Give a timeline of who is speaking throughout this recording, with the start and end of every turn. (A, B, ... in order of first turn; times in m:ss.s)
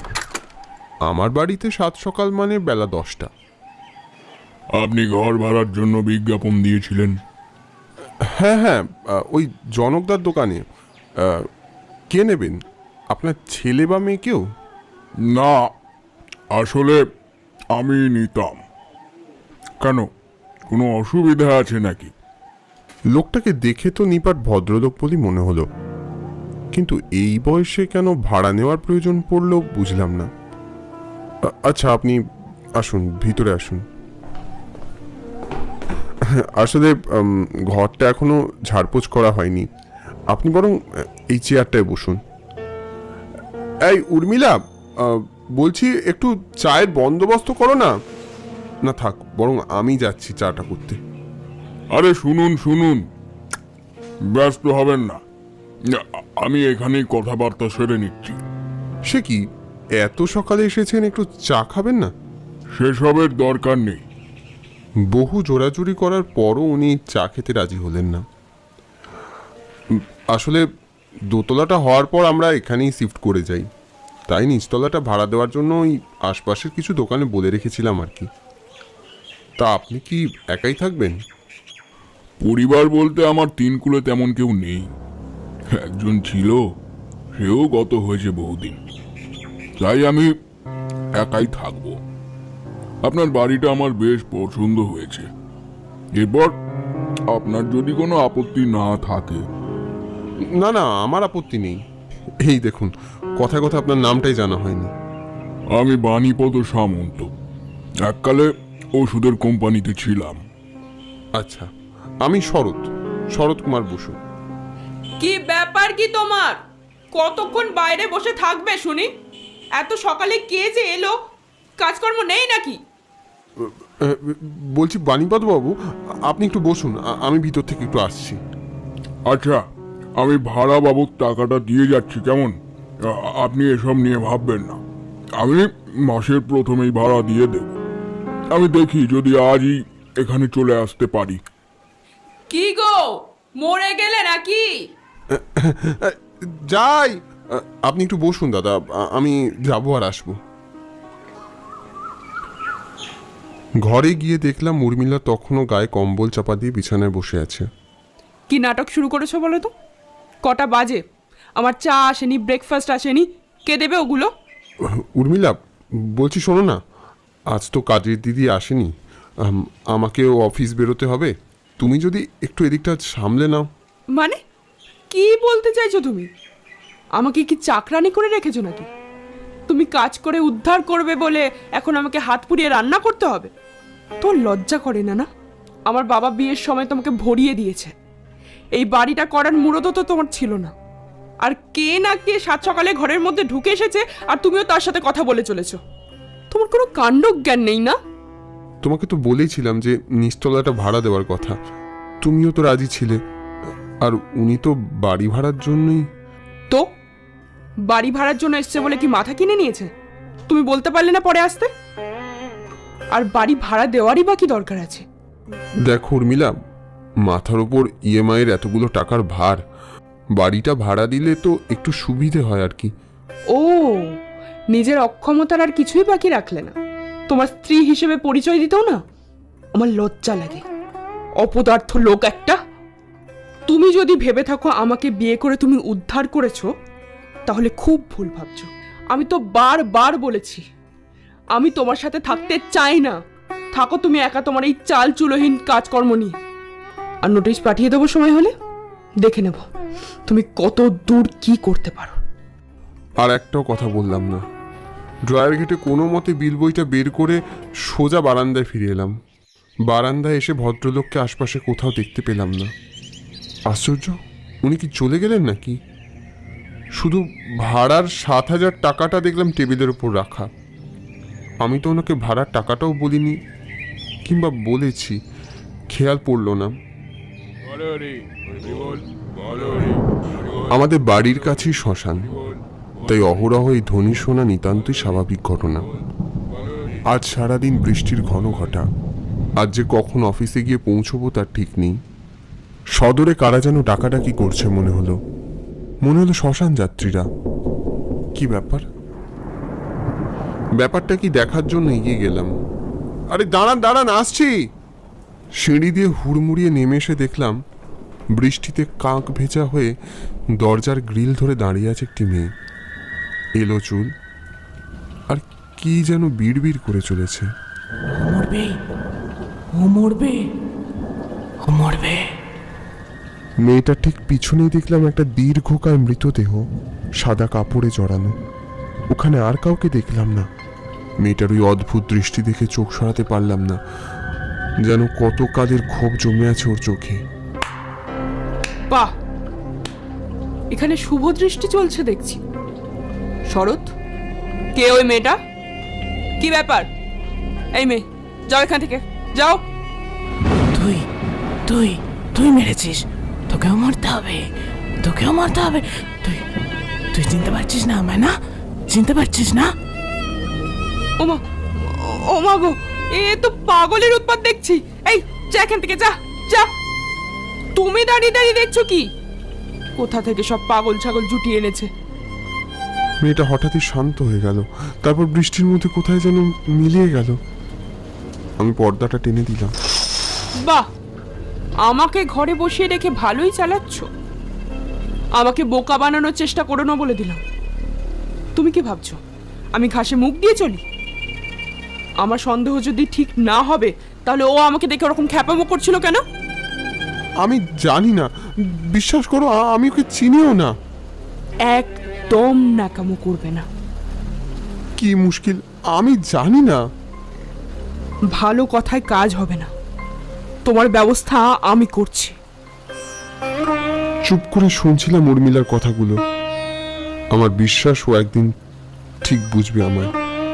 0:01.0-0:03.3 A
0:04.8-0:07.2 B
0:08.2-0:10.6 A
0:11.2-0:11.5 A
0:12.1-0:14.4 A
0:16.5-0:17.0 B
0:17.7-0:18.6 B
0:20.7-0:22.1 B
0:23.1-0:25.7 A
0:26.7-0:30.3 A
0:31.4-0:32.2 A
0:32.8-0:33.8 A
0:36.3-0:39.7 A
0:40.3-0:40.8 A
0:41.3-0:42.2 A
0:43.8-0:47.9 A
0:48.8-0:51.0 A
0:51.9-0:53.0 B
0:54.3-0:55.2 B
0:55.9-0:58.4 B
0:59.1-0:59.4 A
1:00.0-1:02.1 A
1:02.8-1:04.0 B
1:05.1-1:08.2 A
1:09.9-1:10.6 A
1:11.3-1:13.7 A
1:14.3-1:18.3 A
1:19.6-1:21.2 A
1:22.4-1:24.8 B
1:25.8-1:26.6 B
1:27.4-1:28.8 B
1:29.8-1:30.3 B
1:31.2-1:32.0 B
1:33.0-1:35.2 B
1:36.2-1:36.6 B
1:37.3-1:39.4 B
1:40.5-1:41.8 A
1:42.4-1:44.9 A
1:45.8-1:47.3 B
1:48.1-1:48.5 B
1:49.0-1:50.4 B
1:51.4-1:51.7 A
1:52.2-1:54.1 A
1:55.2-1:56.6 C
1:57.1-1:59.1 C
1:59.8-2:01.2 C
2:01.8-2:02.8 C
2:03.6-2:08.4 A
2:09.3-2:09.6 B
2:10.2-2:12.5 B
2:13.1-2:14.8 B
2:15.4-2:17.8 B
2:18.5-2:21.4 B
2:22.5-2:24.9 C
2:25.3-2:30.4 A
2:33.8-2:37.6 A
2:38.5-2:39.7 C
2:40.4-2:41.0 C
2:41.6-2:44.3 C
2:45.1-2:45.6 A
2:46.1-2:46.8 A
2:47.5-2:48.9 A
2:49.4-2:53.7 A
2:55.1-2:56.3 C
2:57.2-2:58.9 C
2:59.7-3:03.5 C
3:04.2-3:05.3 C
3:05.9-3:07.9 C
3:08.7-3:10.7 C
3:11.4-3:15.8 C
3:16.5-3:18.0 C
3:18.8-3:21.6 A
3:22.2-3:23.2 A
3:24.0-3:26.0 A
3:27.9-3:29.9 C
3:30.5-3:31.7 C
3:33.1-3:35.0 C
3:35.8-3:36.5 A
3:37.2-3:39.6 A
3:40.4-3:42.9 A
3:43.5-3:44.1 C
3:44.7-3:46.7 C
3:47.3-3:49.0 C
3:49.7-3:50.6 C
3:51.4-3:52.6 C
3:53.7-3:56.7 C
3:57.4-4:00.6 C
4:01.5-4:03.2 C
4:03.7-4:06.4 C
4:07.2-4:08.5 C
4:09.2-4:09.6 C
4:10.2-4:12.2 C
4:13.2-4:14.4 A
4:15.3-4:19.1 A
4:19.9-4:22.7 A
4:23.7-4:25.8 A
4:27.0-4:30.5 A
4:31.6-4:33.4 A
4:34.2-4:35.2 A
4:35.9-4:36.7 A
4:40.6-4:42.4 A
4:43.0-4:45.9 A
4:47.1-4:48.8 A
4:49.6-4:52.0 A
4:52.9-4:55.2 A
4:56.0-4:57.2 A
4:58.3-4:58.8 A
5:00.8-5:02.5 A
5:03.3-5:04.5 A
5:05.6-5:07.6 A
5:08.4-5:09.9 A
5:10.6-5:12.5 A
5:13.6-5:14.1 A
5:15.3-5:17.5 A
5:18.1-5:18.7 D
5:19.7-5:20.4 D
5:21.6-5:22.2 D
5:23.6-5:26.6 A
5:27.2-5:28.3 A
5:29.1-5:30.5 A
5:31.2-5:33.8 A
5:34.8-5:37.2 A
5:40.7-5:42.4 C
5:43.5-5:43.9 C
5:44.7-5:45.4 C
5:46.4-5:46.9 C
5:47.7-5:49.6 C
5:50.7-5:51.0 D
5:51.7-5:54.5 D
5:55.0-5:56.4 D
5:57.1-5:58.3 D
5:58.9-5:59.7 D
6:01.2-6:06.7 C
6:07.8-6:09.1 C
6:10.0-6:11.9 C
6:13.2-6:17.4 A
6:18.6-6:19.7 A
6:21.8-6:24.1 C
6:25.4-6:27.4 C
6:28.5-6:29.2 C
6:29.7-6:30.8 C
6:32.2-6:36.2 C
6:37.4-6:38.3 A
6:38.8-6:40.7 A
6:41.7-6:43.7 C
6:45.0-6:46.8 A
6:48.3-6:49.7 C
6:50.6-6:52.3 C
6:54.2-6:56.2 A
6:57.3-6:58.5 A
6:59.2-7:00.1 A